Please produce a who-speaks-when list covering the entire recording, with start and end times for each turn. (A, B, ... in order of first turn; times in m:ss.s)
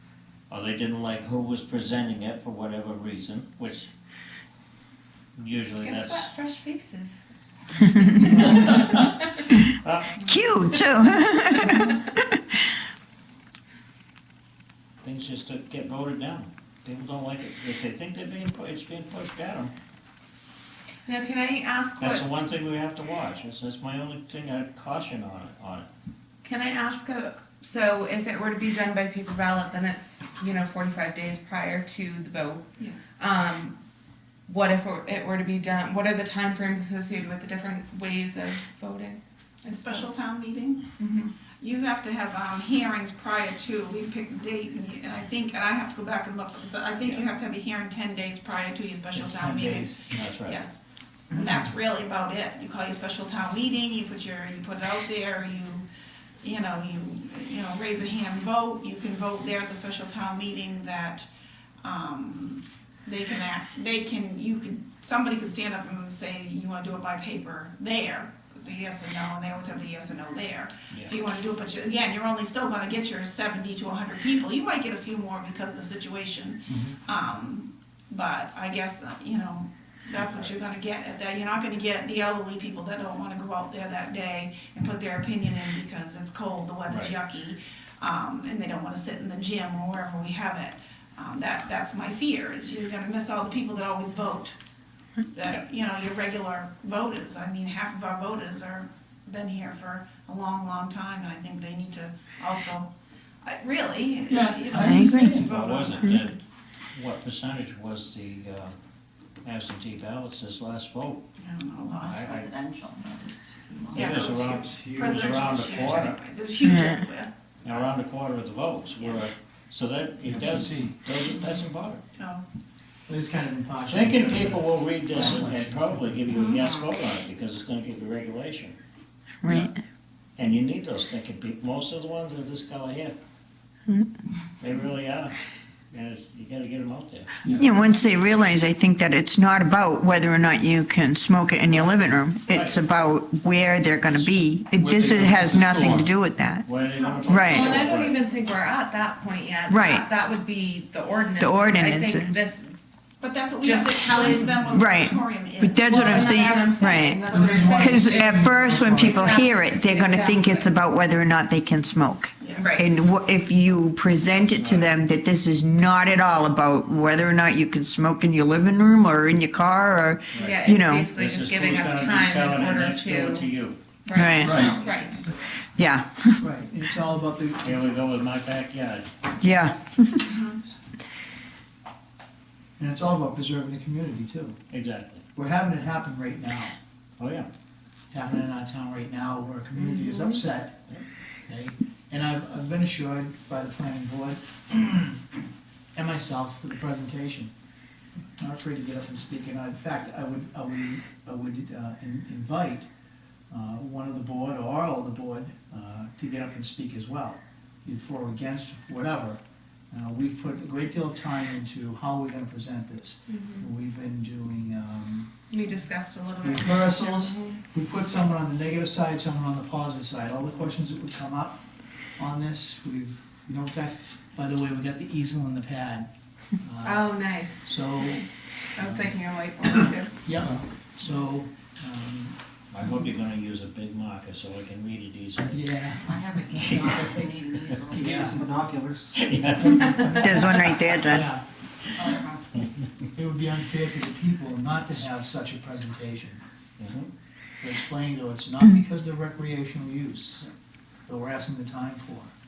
0:00.5-0:03.9 A
0:05.4-0:06.3 A
0:05.8-0:07.2 B
0:07.8-0:09.5 B
0:08.2-0:08.5 C
0:08.3-0:10.2 A
0:10.2-0:12.6 C
0:11.6-0:11.9 B
0:15.0-0:19.7 A
0:21.1-0:22.3 B
0:22.0-0:25.9 A
0:26.4-0:33.8 B
0:32.8-0:33.0 D
0:34.5-0:40.2 B
0:39.7-0:55.8 D
0:49.1-0:50.0 E
0:50.1-0:50.6 A
0:56.4-1:01.3 D
1:01.8-1:34.6 D
1:20.2-1:20.5 A
1:35.3-1:42.9 D
1:43.4-1:46.2 D
1:44.3-1:45.5 F
1:44.7-1:45.3 C
1:45.5-1:46.4 A
1:46.9-1:48.8 A
1:49.4-1:51.2 A
1:51.4-1:52.3 D
1:52.0-1:52.5 A
1:52.1-1:54.4 G
1:53.9-1:56.2 A
1:53.9-1:57.3 D
1:54.8-1:55.1 F
1:56.6-1:57.0 C
1:57.6-2:02.0 A
1:59.0-1:59.2 D
2:00.3-2:00.9 F
2:02.2-2:02.4 D
2:03.1-2:05.7 E
2:03.8-2:08.8 A
2:09.4-2:09.8 C
2:10.4-2:13.1 A
2:14.6-2:15.4 A
2:15.9-2:17.4 A
2:17.5-2:17.7 F
2:17.6-2:26.7 C
2:21.7-2:22.8 A
2:24.8-2:26.1 F
2:26.6-2:28.2 A
2:27.2-2:27.8 C
2:27.4-2:32.8 B
2:29.7-2:30.1 C
2:31.4-2:32.5 C
2:33.2-2:36.6 D
2:33.6-2:34.6 B
2:34.3-2:34.7 E
2:34.6-2:51.1 C
2:36.0-2:38.3 B
2:37.3-2:39.4 E
2:39.0-2:40.7 B
2:42.4-2:42.7 D
2:42.6-2:42.9 B
2:44.4-2:45.0 A
2:50.3-2:50.6 A
2:50.4-2:53.5 B
2:51.2-2:53.8 A
2:54.0-2:55.3 B
2:54.1-2:54.6 C
2:54.4-2:54.9 F
2:54.4-2:55.3 D
2:55.8-2:56.4 C
2:56.4-2:57.8 E
2:57.6-2:59.1 A
2:59.4-3:00.4 C
3:00.2-3:00.6 D
3:02.8-3:04.6 E
3:04.7-3:05.2 A
3:05.4-3:06.7 E
3:07.2-3:07.5 A
3:08.1-3:10.8 E
3:09.9-3:10.3 B
3:11.5-3:15.2 E
3:16.0-3:17.5 E
3:18.4-3:22.9 E
3:23.5-3:35.3 E
3:33.3-3:33.7 B
3:35.5-3:37.6 B
3:36.4-3:41.6 E
3:42.2-3:46.1 E
3:46.6-3:48.2 E
3:46.8-3:50.2 B
3:50.2-3:52.4 E
3:52.7-3:55.7 A
3:55.5-3:56.2 E
3:56.0-3:58.6 G
3:56.6-3:57.8 A
3:57.9-3:59.2 F
3:57.9-3:58.4 E
3:59.2-4:00.2 A
3:59.7-4:01.4 E
3:59.8-4:00.3 B
4:00.1-4:01.3 C
4:02.0-4:02.7 G
4:03.2-4:06.4 E
4:06.8-4:07.1 A
4:07.6-4:10.5 E
4:11.1-4:12.3 E